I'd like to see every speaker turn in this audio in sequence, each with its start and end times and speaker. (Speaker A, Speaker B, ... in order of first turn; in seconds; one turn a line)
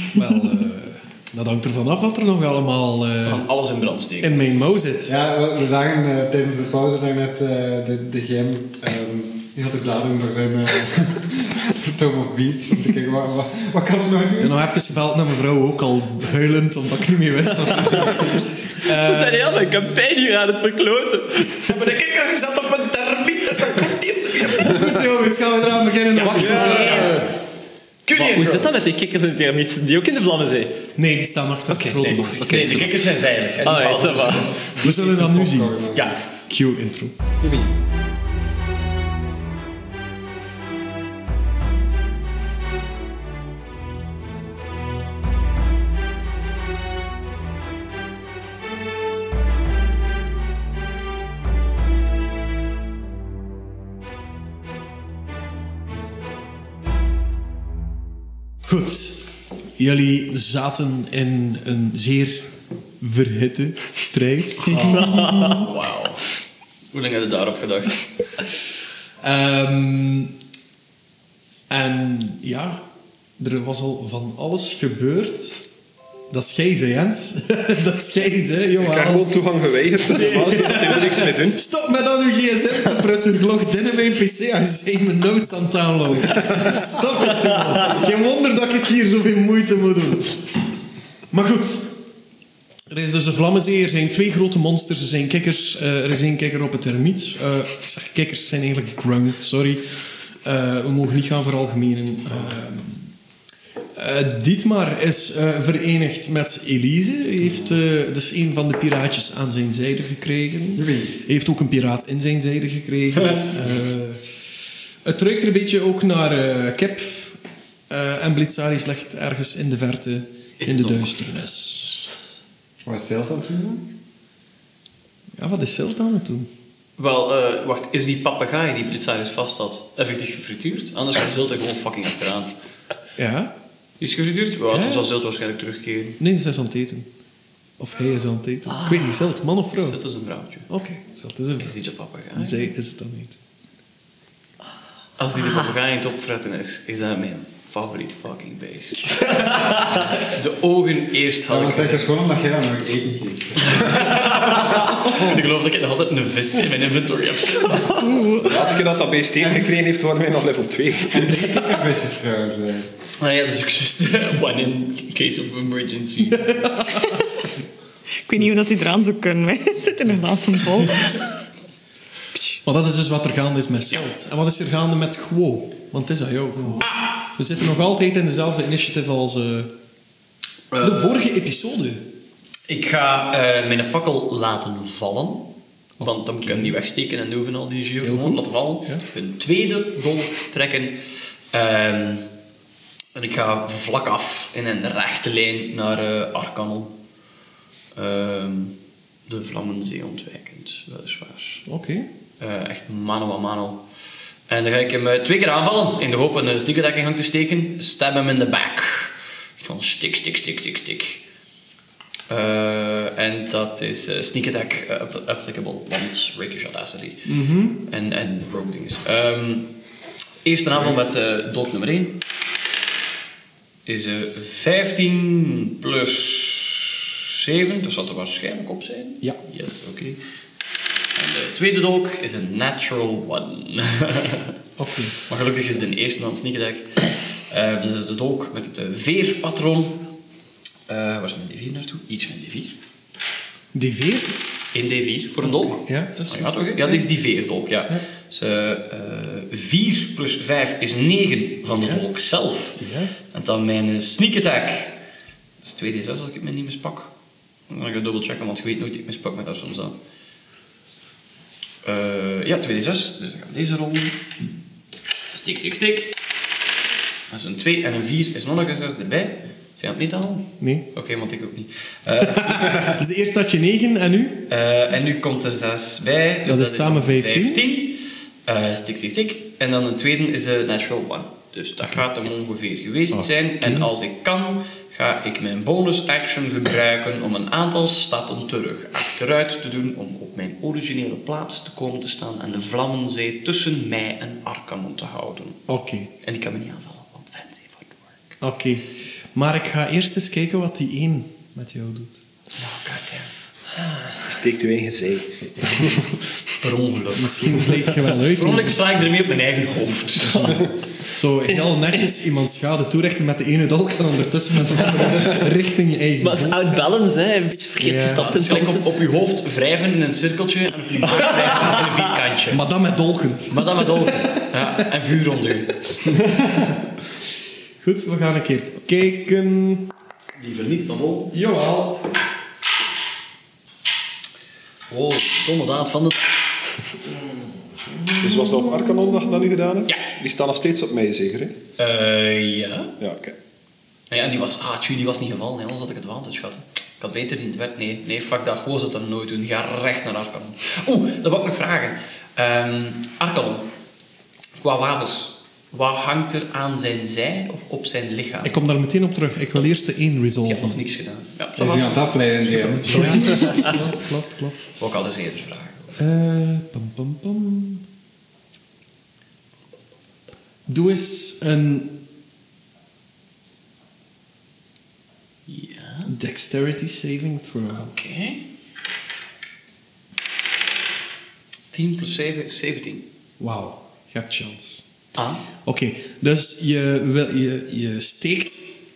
Speaker A: 0.1-3.5
Speaker B: 3.2-4.4
Speaker A: 4.2-5.2
Speaker C: 5.1-14.6
Speaker A: 14.4-19.9
Speaker D: 18.8-21.8
Speaker B: 21.6-25.0
Speaker A: 24.6-27.3
Speaker B: 26.1-27.3
Speaker D: 26.2-27.3
Speaker E: 26.7-26.9
Speaker B: 28.0-28.7
Speaker D: 28.1-30.8
Speaker A: 30.9-32.8
Speaker D: 31.7-33.0
Speaker C: 32.0-32.5
Speaker B: 32.1-35.0
Speaker D: 33.6-34.5
Speaker A: 34.3-35.8
Speaker C: 34.8-36.2
Speaker A: 36.5-37.1
Speaker C: 37.4-37.7
Speaker A: 58.7-59.2
Speaker A: 59.8-62.5
Speaker A: 63.0-65.7
Speaker B: 65.3-66.3
Speaker B: 66.9-68.0
Speaker A: 69.2-70.3
Speaker A: 71.7-72.8
Speaker A: 73.4-75.6
Speaker A: 76.3-79.3
Speaker E: 78.8-81.6
Speaker A: 80.0-90.5
Speaker A: 91.3-91.9
Speaker A: 92.9-99.8
Speaker A: 100.4-103.1
Speaker A: 104.0-114.2
Speaker C: 110.8-111.2
Speaker A: 115.0-117.4
Speaker A: 117.9-122.2
Speaker B: 120.6-121.2
Speaker C: 122.8-123.8
Speaker A: 125.4-126.5
Speaker B: 127.0-132.5
Speaker A: 133.2-133.5
Speaker B: 134.0-136.2
Speaker A: 134.7-135.1
Speaker A: 136.2-137.1
Speaker A: 137.8-140.0
Speaker B: 139.8-140.7
Speaker A: 140.7-141.7
Speaker B: 141.6-142.7
Speaker A: 142.3-143.4
Speaker B: 145.2-152.3
Speaker C: 151.5-154.2
Speaker B: 153.6-158.2
Speaker F: 157.7-158.6
Speaker E: 158.4-161.5
Speaker C: 159.4-159.7
Speaker C: 161.1-162.9
Speaker B: 163.2-166.8
Speaker F: 168.2-171.3
Speaker A: 172.6-179.7
Speaker B: 176.8-177.2
Speaker B: 180.7-181.3
Speaker A: 180.8-182.1
Speaker B: 182.7-185.5
Speaker A: 186.0-186.8
Speaker B: 186.0-190.9
Speaker A: 188.0-189.0
Speaker B: 191.5-192.2
Speaker B: 193.1-196.9
Speaker B: 197.9-198.7
Speaker B: 199.3-201.6
Speaker A: 201.7-202.1
Speaker B: 202.4-203.8
Speaker B: 204.5-211.2
Speaker B: 212.3-217.3
Speaker A: 217.2-217.8
Speaker B: 217.8-219.7
Speaker B: 220.4-222.2
Speaker B: 223.8-230.2
Speaker B: 231.2-234.5
Speaker A: 234.8-235.2
Speaker B: 235.2-240.0
Speaker B: 240.9-242.7
Speaker A: 243.7-244.4
Speaker B: 244.7-252.8
Speaker A: 245.4-247.1
Speaker A: 251.7-252.0
Speaker A: 252.8-253.1
Speaker B: 253.3-255.0
Speaker B: 255.6-257.1
Speaker B: 257.7-259.9
Speaker B: 261.8-264.2
Speaker B: 265.3-266.1
Speaker B: 267.3-273.0
Speaker A: 270.6-270.9
Speaker A: 272.2-274.5
Speaker B: 274.5-295.6
Speaker A: 276.4-277.6
Speaker A: 283.1-283.9
Speaker A: 295.7-296.1
Speaker B: 296.2-298.4
Speaker A: 298.4-302.2
Speaker B: 302.6-303.3
Speaker E: 304.2-306.1
Speaker B: 306.6-310.7
Speaker A: 307.1-308.8
Speaker A: 310.2-316.8
Speaker D: 316.2-318.9
Speaker A: 317.8-318.3
Speaker B: 318.1-322.6
Speaker A: 321.3-321.8
Speaker A: 322.5-324.5
Speaker B: 323.5-325.9
Speaker A: 327.8-329.9
Speaker B: 330.4-331.3
Speaker A: 331.3-332.0
Speaker B: 334.9-336.4
Speaker A: 337.1-339.5
Speaker E: 338.2-341.6
Speaker B: 341.8-342.9
Speaker E: 343.0-343.4
Speaker B: 344.1-353.7
Speaker B: 354.6-358.6
Speaker A: 358.4-360.8
Speaker B: 360.4-363.8
Speaker C: 361.6-363.6
Speaker A: 362.8-364.7
Speaker B: 364.8-365.9
Speaker A: 365.9-367.8
Speaker A: 370.7-372.0
Speaker B: 375.5-376.1
Speaker A: 376.1-377.9
Speaker B: 377.7-378.4
Speaker B: 381.7-383.0
Speaker A: 383.4-384.8
Speaker B: 385.1-385.4
Speaker A: 385.6-388.7